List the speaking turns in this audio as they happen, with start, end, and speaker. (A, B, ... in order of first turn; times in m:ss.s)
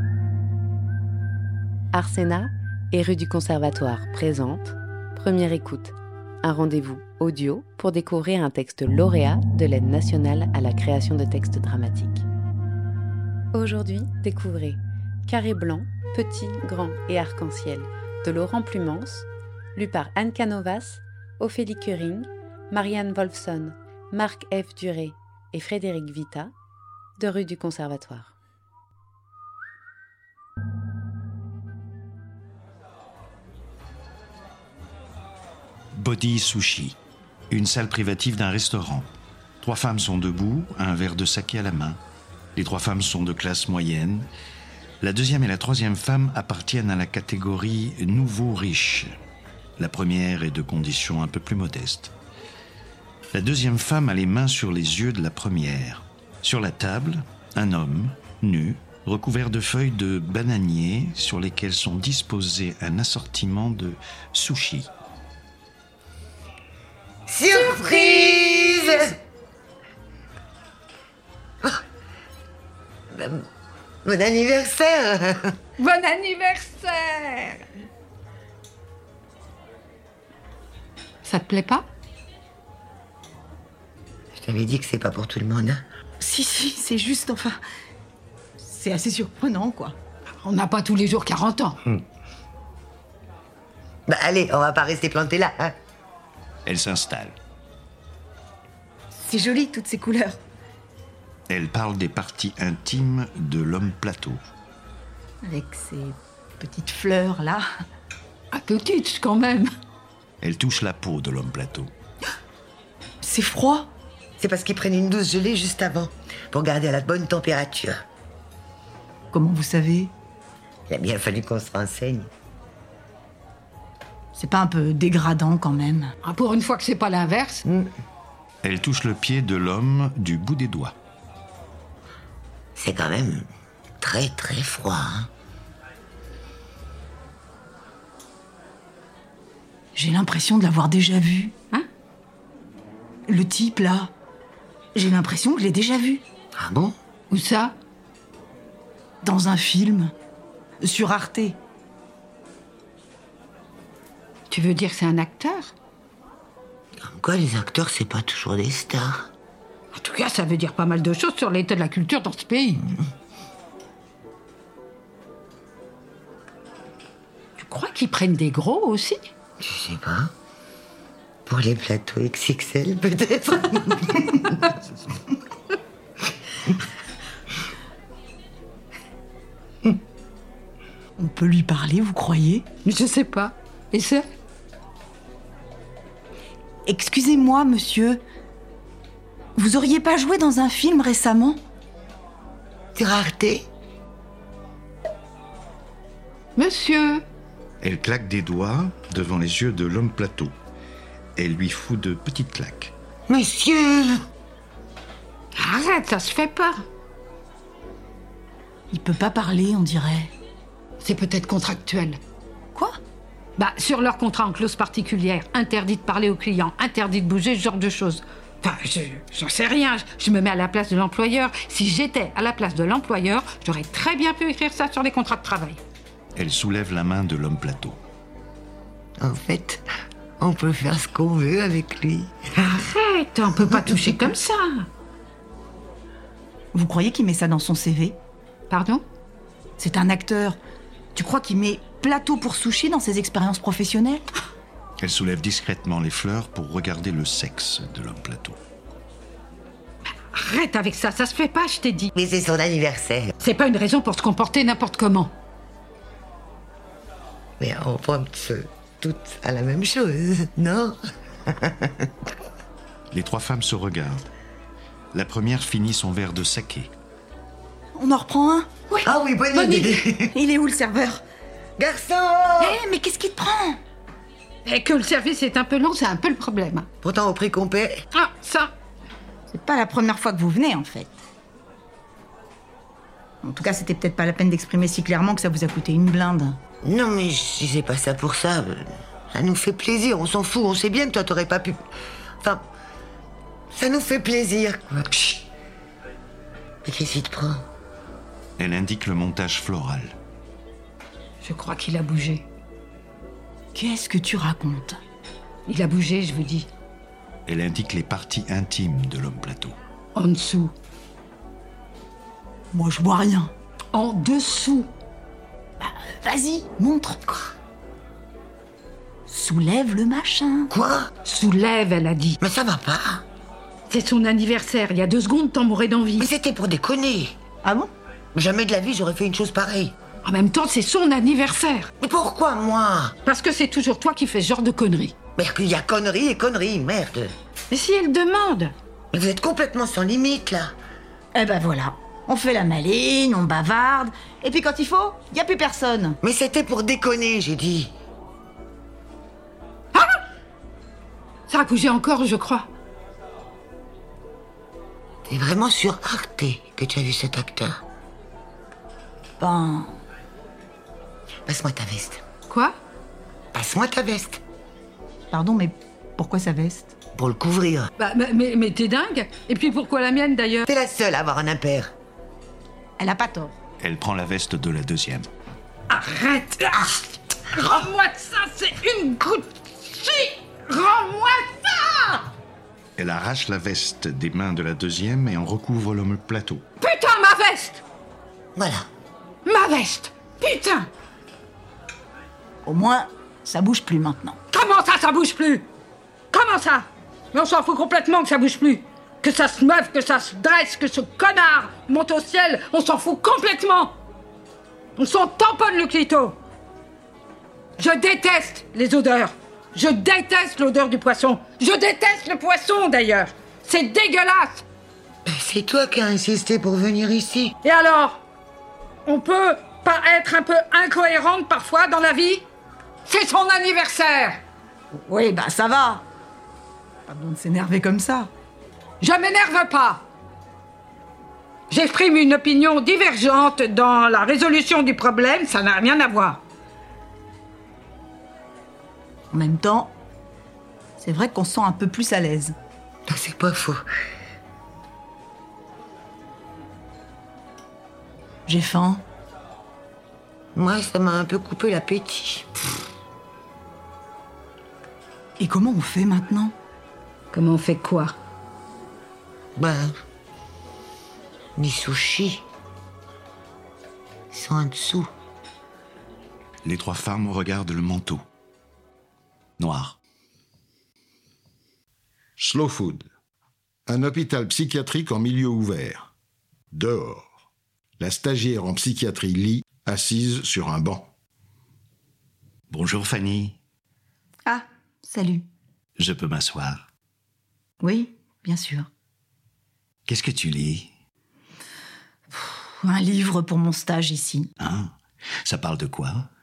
0:01.9-0:12.2 A
0:13.5-0:26.5 A
0:27.2-0:28.3 A
0:35.9-0:37.0 B
0:37.5-0:39.1 B
0:39.6-0:42.0 B
0:42.6-0:44.3 B
0:45.0-0:49.1 B
0:49.8-0:52.1 B
0:53.3-1:04.9 B
1:07.3-1:09.2 C
1:08.0-1:08.7 D
1:13.1-1:13.4 C
1:14.0-1:15.5 C
1:15.8-1:17.6 D
1:21.2-1:21.8 D
1:24.3-1:25.8 C
1:26.2-1:27.6 E
1:28.6-1:30.0 E
1:30.4-1:31.8 D
1:34.1-1:35.7 C
1:36.6-1:37.4 B
1:39.1-1:40.4 E
1:41.5-1:44.4 B
1:45.4-1:47.6 E
1:48.5-1:49.7 D
1:50.4-1:51.9 B
1:53.2-1:53.9 E
1:54.4-1:58.0 C
1:59.3-2:00.1 E
2:00.9-2:02.3 C
2:04.3-2:06.1 E
2:06.2-2:07.6 D
2:07.6-2:07.9 C
2:08.6-2:11.0 B
2:12.8-2:13.5 C
2:14.0-2:15.3 C
2:19.9-2:21.5 E
2:23.3-2:24.1 E
2:24.9-2:26.2 E
2:26.6-2:27.0 C
2:27.3-2:27.8 D
2:29.2-2:30.1 E
2:30.8-2:31.6 E
2:34.5-2:35.7 D
2:37.0-2:39.3 C
2:39.9-2:42.8 D
2:47.6-2:49.3 D
2:49.6-2:50.3 C
2:51.4-2:54.5 C
3:01.2-3:02.7 E
3:02.8-3:04.2 D
3:06.8-3:08.2 E
3:09.6-3:11.6 E
3:12.9-3:13.6 C
3:16.6-3:17.2 D
3:17.8-3:20.5 B
3:21.4-3:22.9 B
3:23.3-3:24.2 C
3:25.6-3:26.8 D
3:28.9-3:30.3 E
3:31.0-3:32.2 D
3:33.6-3:45.8 D
3:46.4-3:48.0 B
3:49.2-3:49.8 C
3:50.4-3:52.4 C
3:52.6-3:54.9 D
3:53.6-3:54.2 C
3:56.7-3:58.2 E
3:58.7-3:59.0 D
3:59.8-4:00.6 E
4:01.1-4:04.3 E
4:05.0-4:08.6 B
4:10.3-4:12.1 D
4:12.1-4:13.3 C
4:13.4-4:15.3 D
4:17.6-4:21.0 C
4:21.5-4:22.1 C
4:23.1-4:24.3 B
4:25.1-4:26.9 B
4:28.0-4:28.7 E
4:28.9-4:29.9 D
4:29.0-4:30.3 C
4:30.3-4:31.2 E
4:31.8-4:32.8 C
4:32.6-4:33.8 E
4:34.6-4:36.9 D
4:37.0-4:38.0 C
4:38.1-4:38.7 D
4:39.5-4:41.2 E
4:43.4-4:46.6 E
4:46.8-4:51.8 C
4:53.7-4:55.4 C
4:56.8-4:57.6 C
4:58.6-5:00.2 B
5:01.4-5:02.4 D
5:03.7-5:05.0 E
5:05.6-5:06.7 D
5:07.5-5:09.8 B
5:10.1-5:10.7 D
5:12.7-5:13.5 E
5:13.9-5:14.9 D
5:15.8-5:17.5 E
5:19.3-5:20.7 E
5:20.7-5:21.1 C
5:21.2-5:22.4 D
5:22.4-5:23.2 C
5:23.9-5:26.3 D
5:26.2-5:27.4 C
5:27.6-5:27.9 E
5:28.3-5:30.0 C
5:30.2-5:31.9 D
5:32.0-5:33.1 C
5:33.2-5:35.1 D
5:35.4-5:37.3 C
5:37.7-5:38.7 D
5:39.1-5:40.7 C
5:41.3-5:46.2 E
5:46.2-5:47.9 C
5:51.5-5:52.7 D
5:55.3-5:57.8 C
5:59.4-6:00.0 E
6:01.4-6:02.2 C
6:02.5-6:02.8 D
6:03.5-6:04.4 C
6:05.3-6:07.0 E
6:07.1-6:07.9 C
6:08.0-6:10.7 D
6:10.6-6:11.9 C
6:13.0-6:13.6 E
6:13.8-6:15.3 B
6:15.9-6:22.3 D
6:23.0-6:26.6 B
6:26.8-6:27.8 D
6:28.6-6:28.9 C
6:29.4-6:30.9 D
6:32.6-6:34.4 E
6:34.5-6:35.6 D
6:36.3-6:43.9 D
6:45.0-6:46.4 D
6:47.8-6:54.6 D
6:55.2-6:57.5 C
6:57.6-6:58.2 D
6:59.0-7:02.4 D
7:03.0-7:04.4 D
7:04.9-7:06.0 E
7:07.1-7:08.3 E
7:09.0-7:10.0 D
7:11.7-7:16.4 D
7:19.3-7:20.0 E
7:21.0-7:22.6 E
7:23.1-7:23.8 C
7:28.5-7:29.0 E
7:30.5-7:32.6 C
7:35.4-7:36.5 E
7:37.3-7:38.2 D
7:39.6-7:39.9 C
7:41.6-7:42.4 C
7:44.3-7:45.1 C
7:46.6-7:48.2 B
7:49.6-7:50.0 B
7:52.4-7:53.1 F
7:53.9-7:56.1 F
7:56.7-7:57.3 F
7:58.0-8:01.1 F
8:02.7-8:03.6 B
8:04.4-8:05.4 E
8:06.0-8:06.9 B
8:07.8-8:08.9 E
8:10.0-8:10.9 B
8:12.3-8:14.5 E
8:14.6-8:16.3 B